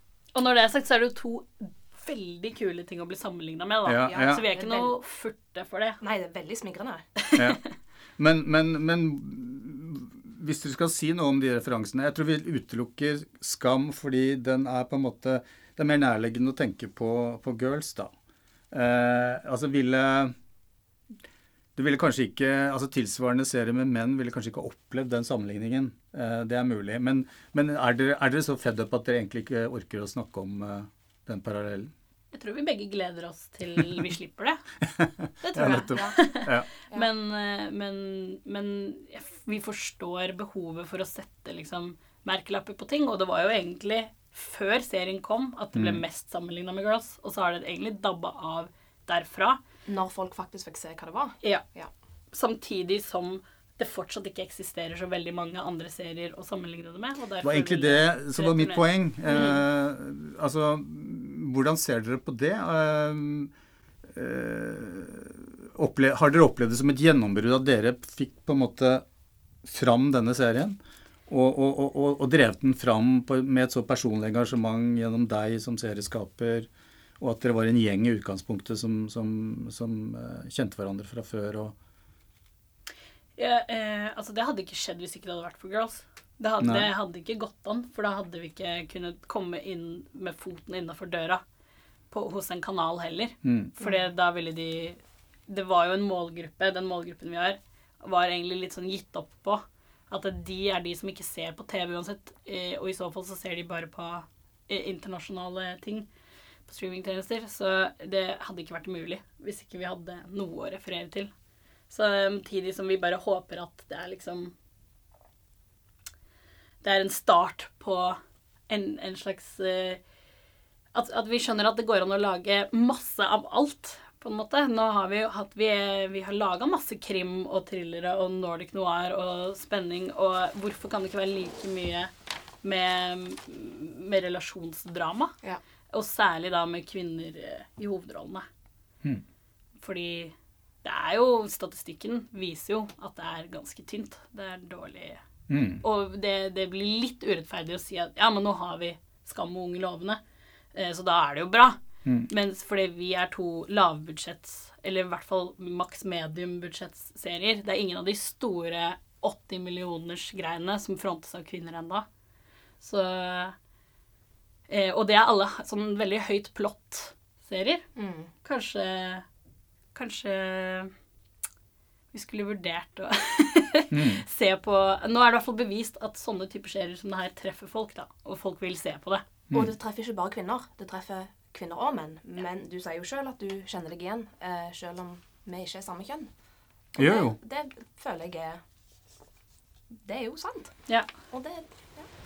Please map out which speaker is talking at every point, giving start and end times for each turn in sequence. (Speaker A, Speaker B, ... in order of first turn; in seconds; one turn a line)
Speaker A: 0.3-6.0
Speaker B: 3.9-4.4
Speaker C: 4.0-5.0
Speaker C: 6.0-7.1
Speaker A: 7.3-7.5
Speaker B: 7.3-7.6
Speaker B: 8.2-18.1
Speaker B: 18.7-20.3
Speaker B: 21.8-31.9
Speaker A: 32.3-34.6
Speaker B: 34.8-36.6
Speaker A: 35.4-49.6
Speaker C: 35.5-36.3
Speaker B: 45.7-46.0
Speaker C: 49.9-51.9
Speaker A: 52.3-59.6
Speaker B: 57.4-63.5
Speaker B: 64.0-69.0
Speaker B: 69.6-76.7
Speaker B: 77.2-81.7
Speaker A: 83.3-91.4
Speaker B: 86.6-86.9
Speaker A: 92.1-106.1
Speaker B: 93.4-93.7
Speaker A: 106.7-111.3
Speaker A: 111.9-114.5
Speaker A: 116.8-120.0
Speaker A: 120.9-132.1
Speaker A: 132.6-135.3
Speaker A: 135.9-138.4
Speaker A: 139.8-145.2
Speaker B: 145.5-145.8
Speaker A: 145.8-150.2
Speaker A: 150.7-162.1
Speaker A: 162.8-163.6
Speaker A: 164.7-167.8
Speaker C: 167.9-168.3
Speaker A: 168.4-169.2
Speaker A: 169.9-170.9
Speaker A: 172.1-179.2
Speaker B: 173.9-174.2
Speaker C: 179.5-186.3
Speaker C: 186.9-188.6
Speaker B: 187.0-187.4
Speaker C: 189.9-190.8
Speaker C: 191.3-192.1